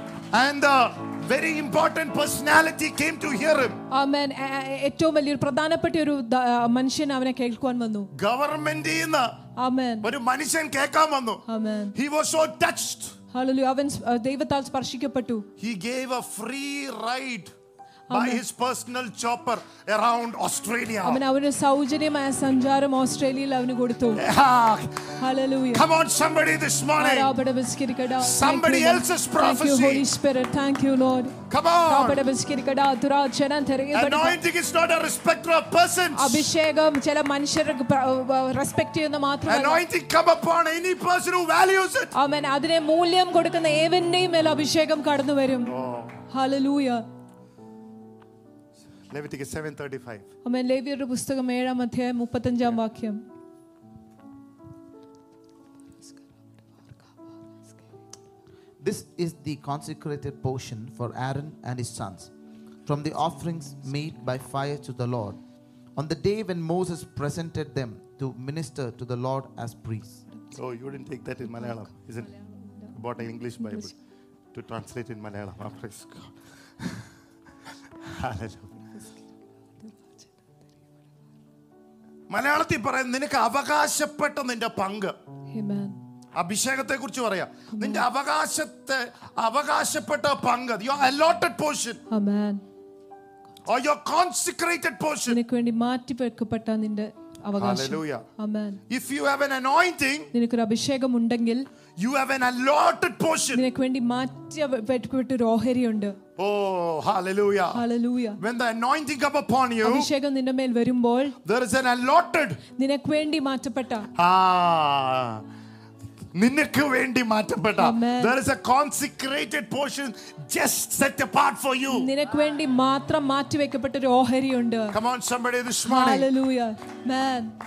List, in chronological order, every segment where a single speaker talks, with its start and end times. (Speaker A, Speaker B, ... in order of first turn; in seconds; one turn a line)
Speaker A: 0.3-3.8
Speaker B: 3.9-8.1
Speaker A: 8.1-9.4
Speaker B: 9.6-10.1
Speaker A: 10.0-11.4
Speaker B: 11.5-11.9
Speaker A: 11.9-13.2
Speaker B: 13.3-15.5
Speaker A: 15.6-17.5
Speaker B: 18.1-18.4
Speaker A: 18.1-21.2
Speaker B: 21.0-24.2
Speaker A: 24.2-25.2
Speaker B: 25.2-25.9
Speaker A: 25.7-27.3
Speaker B: 27.0-34.4
Speaker A: 28.2-30.1
Speaker A: 31.5-32.2
Speaker A: 33.9-36.5
Speaker B: 36.1-39.8
Speaker A: 39.5-42.1
Speaker B: 42.1-45.7
Speaker A: 45.7-46.2
Speaker B: 46.3-47.0
Speaker A: 49.1-50.3
Speaker B: 50.5-53.2
Speaker C: 58.8-62.3
Speaker C: 62.9-65.4
Speaker C: 66.0-70.2
Speaker A: 70.5-72.3
Speaker B: 71.5-73.0
Speaker A: 72.9-73.9
Speaker B: 73.6-73.9
Speaker A: 74.5-77.1
Speaker A: 78.0-78.9
Speaker A: 82.3-85.2
Speaker B: 85.5-86.0
Speaker A: 86.3-92.0
Speaker B: 87.7-88.0
Speaker B: 92.1-92.6
Speaker A: 93.7-95.4
Speaker B: 95.3-98.8
Speaker A: 97.6-98.2
Speaker A: 98.9-100.3
Speaker B: 100.3-101.7
Speaker A: 102.0-103.6
Speaker B: 103.5-106.2
Speaker A: 106.4-107.8
Speaker B: 107.7-108.4
Speaker A: 108.4-110.1
Speaker B: 109.8-111.4
Speaker A: 111.5-112.6
Speaker B: 112.8-114.1
Speaker A: 114.2-115.4
Speaker A: 116.3-122.1
Speaker B: 117.8-118.3
Speaker B: 121.9-125.0
Speaker A: 124.9-126.3
Speaker B: 125.8-127.5